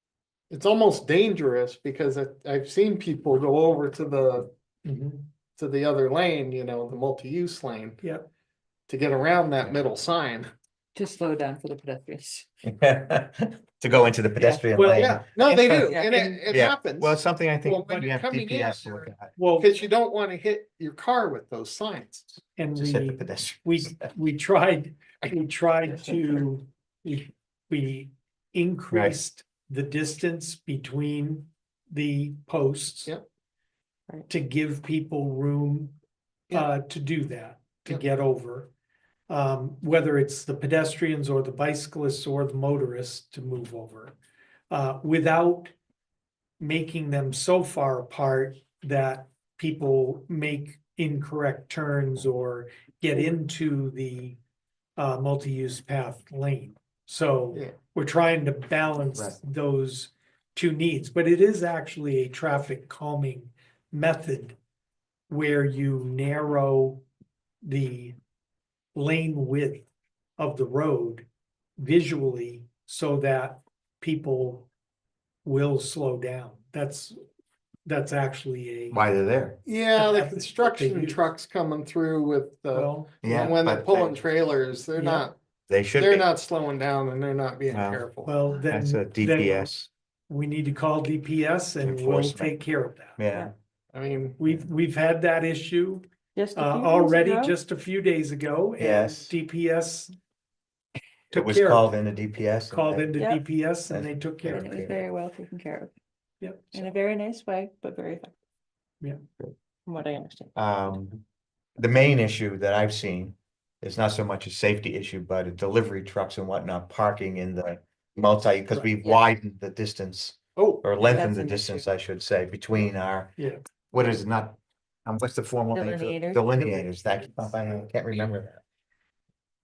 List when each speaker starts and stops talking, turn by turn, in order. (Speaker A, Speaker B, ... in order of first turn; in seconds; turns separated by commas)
Speaker A: 0.5-4.5, Speaker B: 4.8-5.3, Speaker A: 5.5-8.0, Speaker B: 8.0-8.3, Speaker A: 8.9-10.5, Speaker C: 10.9-12.5, Speaker D: 12.7-15.9, Speaker C: 14.4-14.7, Speaker B: 14.7-15.2, Speaker A: 14.9-22.3, Speaker C: 15.8-16.4, Speaker D: 16.5-19.3, Speaker B: 19.4-19.7, Speaker B: 22.6-33.1, Speaker D: 22.7-24.1, Speaker B: 34.3-35.9, Speaker B: 36.5-38.7, Speaker B: 39.3-44.1, Speaker B: 44.7-45.7, Speaker B: 46.6-54.4, Speaker B: 55.0-64.6, Speaker B: 65.3-67.0, Speaker B: 67.6-68.2, Speaker B: 68.9-69.8, Speaker B: 70.4-71.2, Speaker B: 71.8-74.7, Speaker B: 75.4-77.2, Speaker B: 77.8-79.0, Speaker D: 78.9-79.6, Speaker A: 79.7-85.4, Speaker B: 80.0-81.2, Speaker B: 82.7-83.5, Speaker D: 83.2-84.2, Speaker B: 85.0-85.3, Speaker D: 85.7-86.3, Speaker A: 85.9-88.3, Speaker D: 87.7-88.0, Speaker B: 88.2-89.7, Speaker D: 88.6-89.9, Speaker B: 90.3-93.2, Speaker D: 91.8-92.6, Speaker D: 93.2-93.5, Speaker A: 93.9-94.5, Speaker B: 94.4-100.1, Speaker C: 96.3-97.6, Speaker D: 98.8-99.3, Speaker B: 101.3-101.9, Speaker D: 101.3-103.1, Speaker B: 102.7-104.7, Speaker C: 103.2-103.4, Speaker D: 103.9-105.0, Speaker C: 104.5-105.9, Speaker B: 106.4-106.9, Speaker C: 106.7-108.3, Speaker C: 109.8-110.5, Speaker D: 110.5-111.2, Speaker D: 111.8-123.3, Speaker C: 118.8-119.2, Speaker B: 120.6-120.8, Speaker C: 121.0-121.9, Speaker B: 123.4-123.6, Speaker D: 123.9-128.6, Speaker C: 125.7-126.5